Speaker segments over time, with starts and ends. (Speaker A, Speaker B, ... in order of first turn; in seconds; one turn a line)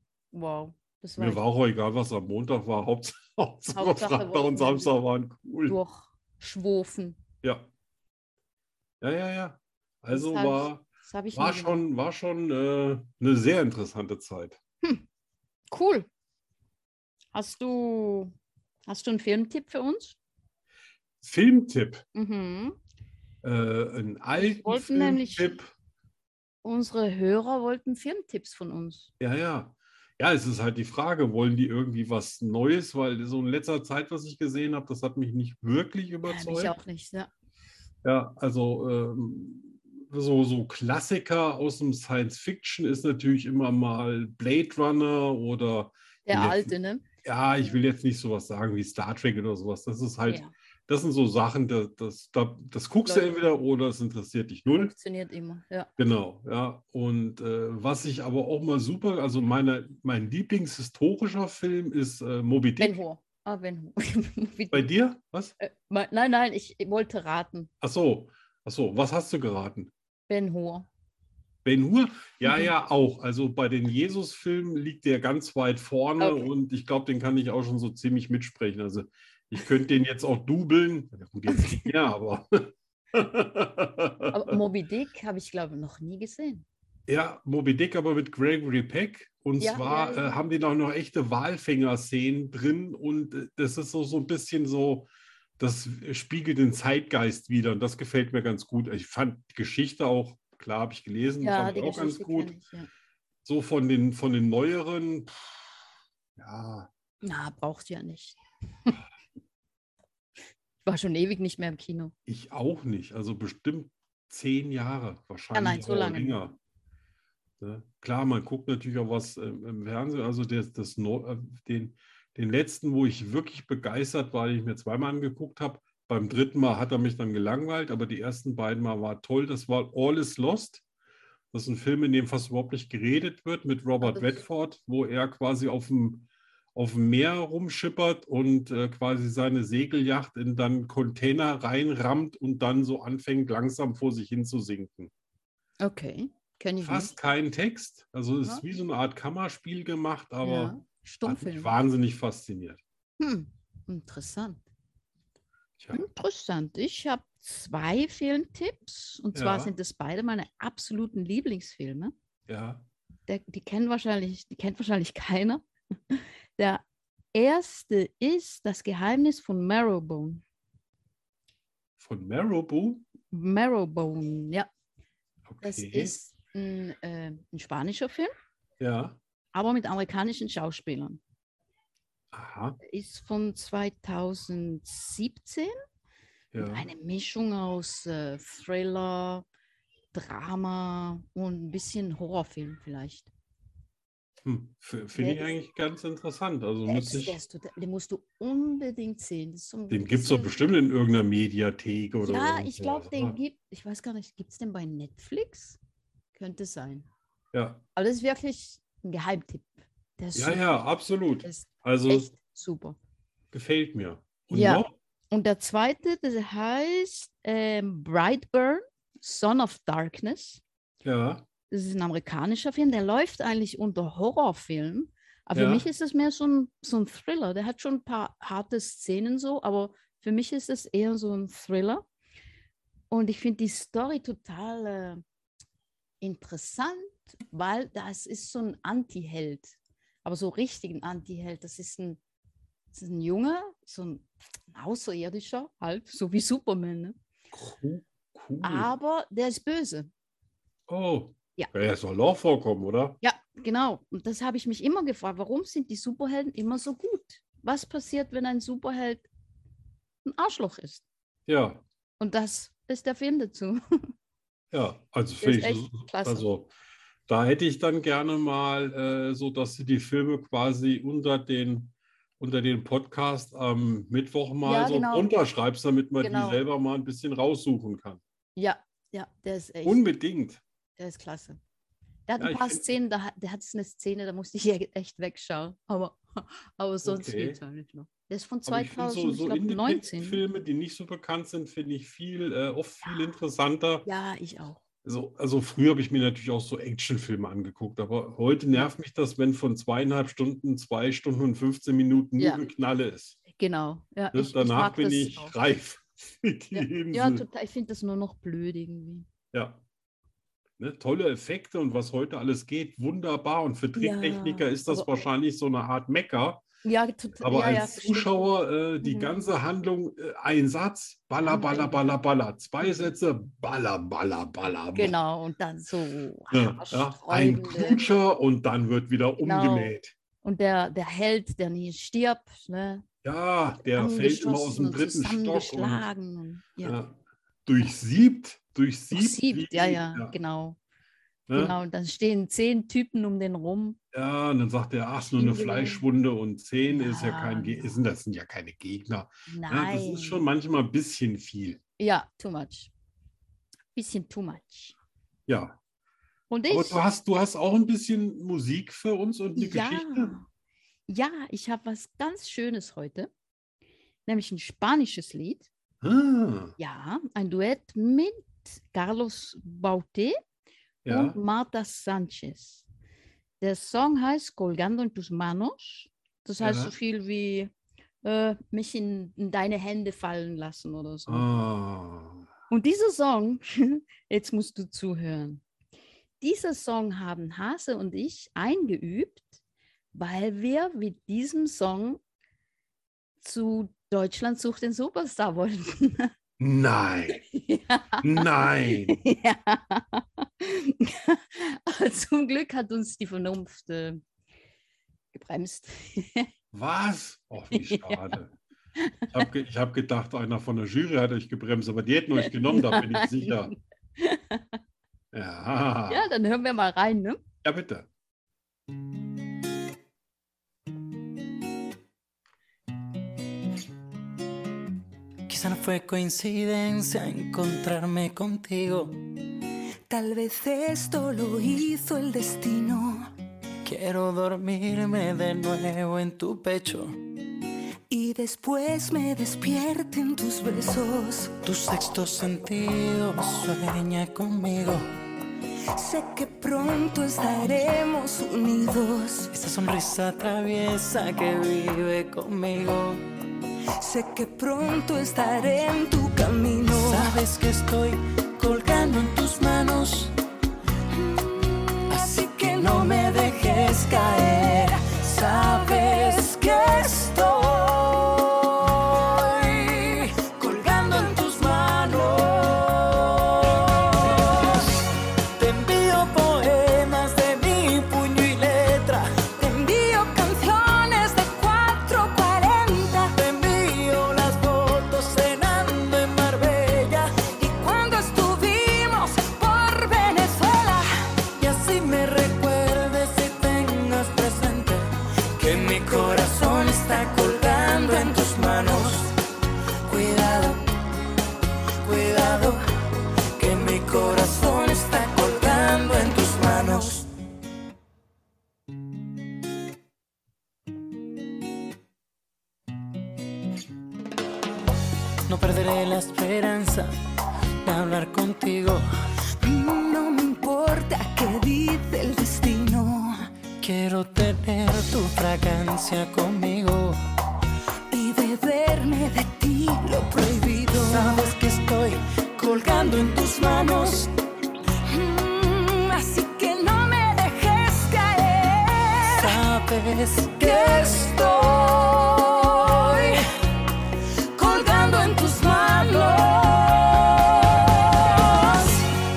Speaker A: 0.3-1.4
Speaker B: 1.2-5.8
Speaker A: 3.7-4.9
Speaker A: 5.7-7.2
Speaker B: 7.4-7.7
Speaker B: 9.0-14.6
Speaker A: 10.1-11.8
Speaker A: 15.7-16.1
Speaker A: 17.3-18.3
Speaker A: 18.9-20.2
Speaker B: 21.2-22.1
Speaker A: 22.1-22.8
Speaker B: 23.4-25.7
Speaker A: 24.4-25.6
Speaker A: 26.6-29.1
Speaker B: 29.2-36.7
Speaker A: 36.3-37.3
Speaker B: 38.0-46.7
Speaker A: 46.3-47.1
Speaker B: 47.2-54.9
Speaker A: 50.3-50.5
Speaker A: 53.1-53.4
Speaker A: 54.7-55.9
Speaker B: 56.0-63.0
Speaker A: 62.8-64.9
Speaker B: 64.7-65.5
Speaker A: 65.6-67.7
Speaker B: 67.8-69.9
Speaker A: 70.3-70.9
Speaker B: 71.7-84.6
Speaker A: 72.4-72.7
Speaker A: 76.2-76.5
Speaker A: 81.5-81.9
Speaker A: 84.3-86.7
Speaker B: 87.1-95.1
Speaker A: 89.6-90.4
Speaker B: 95.6-102.5
Speaker A: 101.4-102.9
Speaker B: 103.5-105.7
Speaker B: 106.4-106.9
Speaker A: 107.2-109.0
Speaker A: 110.8-112.1
Speaker B: 112.3-116.6
Speaker A: 115.5-116.4
Speaker B: 117.6-130.8
Speaker B: 131.5-145.1
Speaker A: 134.0-134.4
Speaker A: 145.8-147.2
Speaker B: 146.8-152.8
Speaker A: 150.4-151.7
Speaker A: 153.2-154.6
Speaker B: 155.8-156.0
Speaker A: 155.9-162.1
Speaker B: 159.3-159.7
Speaker B: 162.5-162.8
Speaker A: 163.3-166.8
Speaker A: 167.3-170.4
Speaker B: 172.0-173.1
Speaker A: 173.3-174.7
Speaker B: 175.5-176.1
Speaker A: 175.6-178.3
Speaker B: 178.8-179.2
Speaker A: 179.5-181.2
Speaker B: 182.3-182.8
Speaker A: 182.8-185.7
Speaker B: 186.5-186.9
Speaker A: 186.6-189.4
Speaker A: 190.1-193.3
Speaker B: 194.4-197.4
Speaker A: 195.2-195.5
Speaker A: 196.9-200.6
Speaker B: 199.9-203.4
Speaker A: 202.2-205.8
Speaker A: 206.3-207.1
Speaker B: 207.5-207.8
Speaker A: 208.0-210.7
Speaker B: 210.3-212.3
Speaker A: 211.4-213.0
Speaker B: 213.5-214.9
Speaker A: 214.5-220.6
Speaker B: 221.0-221.4
Speaker A: 221.7-232.0
Speaker B: 225.5-225.9
Speaker A: 233.1-235.2
Speaker A: 236.2-242.2
Speaker A: 242.9-247.2
Speaker B: 247.5-248.9
Speaker A: 248.6-250.1
Speaker B: 250.9-253.2
Speaker A: 253.2-259.3
Speaker A: 260.2-261.0
Speaker B: 261.5-261.8
Speaker A: 262.2-263.8
Speaker B: 264.7-266.7
Speaker A: 265.4-266.5
Speaker B: 267.3-278.2
Speaker A: 274.6-275.3
Speaker A: 276.2-276.6
Speaker A: 278.6-280.0
Speaker B: 279.8-280.6
Speaker A: 281.0-281.6
Speaker A: 282.3-290.4
Speaker B: 282.4-282.8
Speaker B: 287.0-287.6
Speaker B: 288.7-294.1
Speaker A: 294.1-294.8
Speaker B: 295.0-303.4
Speaker A: 302.4-302.7
Speaker A: 303.5-305.5
Speaker B: 304.3-307.4
Speaker A: 306.7-309.3
Speaker B: 309.5-309.8
Speaker B: 310.8-316.6
Speaker A: 313.9-315.2
Speaker A: 316.8-319.5
Speaker B: 317.4-325.1
Speaker A: 321.4-322.1
Speaker A: 322.8-323.1
Speaker A: 324.9-328.0
Speaker B: 326.5-330.1
Speaker A: 329.4-333.1
Speaker B: 333.2-336.1
Speaker A: 333.9-337.0
Speaker B: 336.8-340.4
Speaker A: 339.1-340.8
Speaker B: 341.5-341.8
Speaker A: 341.5-344.0
Speaker B: 344.1-351.8
Speaker A: 345.4-346.1
Speaker A: 346.9-348.0
Speaker A: 349.5-350.4
Speaker A: 352.0-352.9
Speaker A: 353.9-355.0
Speaker B: 355.5-355.8
Speaker A: 356.5-357.0
Speaker B: 356.7-360.4
Speaker A: 359.6-360.5
Speaker A: 361.1-363.3
Speaker A: 364.3-365.7
Speaker B: 366.0-366.8
Speaker A: 366.8-370.4
Speaker B: 371.1-371.4
Speaker A: 371.1-372.9
Speaker A: 373.6-377.7
Speaker B: 376.6-376.9
Speaker A: 378.2-381.5
Speaker B: 381.3-382.5
Speaker A: 382.7-385.6
Speaker A: 386.4-389.6
Speaker A: 390.1-392.2
Speaker A: 393.4-396.3
Speaker B: 396.6-397.4
Speaker A: 397.4-404.2
Speaker B: 398.2-399.2
Speaker A: 405.3-406.5
Speaker B: 406.7-408.6
Speaker A: 407.7-408.3
Speaker A: 409.0-409.4
Speaker B: 409.3-413.7
Speaker A: 412.4-413.7
Speaker A: 414.2-414.8
Speaker B: 415.3-416.3
Speaker A: 416.1-417.4
Speaker B: 417.6-418.1
Speaker C: 425.5-429.1
Speaker D: 430.1-433.3
Speaker C: 433.8-437.1
Speaker D: 438.1-441.6
Speaker C: 441.6-445.1
Speaker D: 445.9-449.5
Speaker C: 449.5-453.2
Speaker D: 454.0-457.4
Speaker C: 456.8-460.3
Speaker D: 461.2-468.0
Speaker C: 462.1-474.9
Speaker D: 469.9-471.7
Speaker C: 475.6-479.7
Speaker D: 479.6-483.4
Speaker C: 483.3-488.5
Speaker D: 487.6-491.1
Speaker C: 491.6-499.3
Speaker C: 500.1-500.8
Speaker C: 502.0-502.8
Speaker C: 503.6-507.3
Speaker C: 515.5-517.1
Speaker C: 517.8-519.0
Speaker D: 519.6-523.3
Speaker C: 523.8-527.2
Speaker D: 528.1-531.5
Speaker C: 531.0-534.2
Speaker D: 533.0-534.3
Speaker D: 535.1-539.6
Speaker C: 539.2-541.4
Speaker D: 540.6-543.5
Speaker D: 544.6-549.0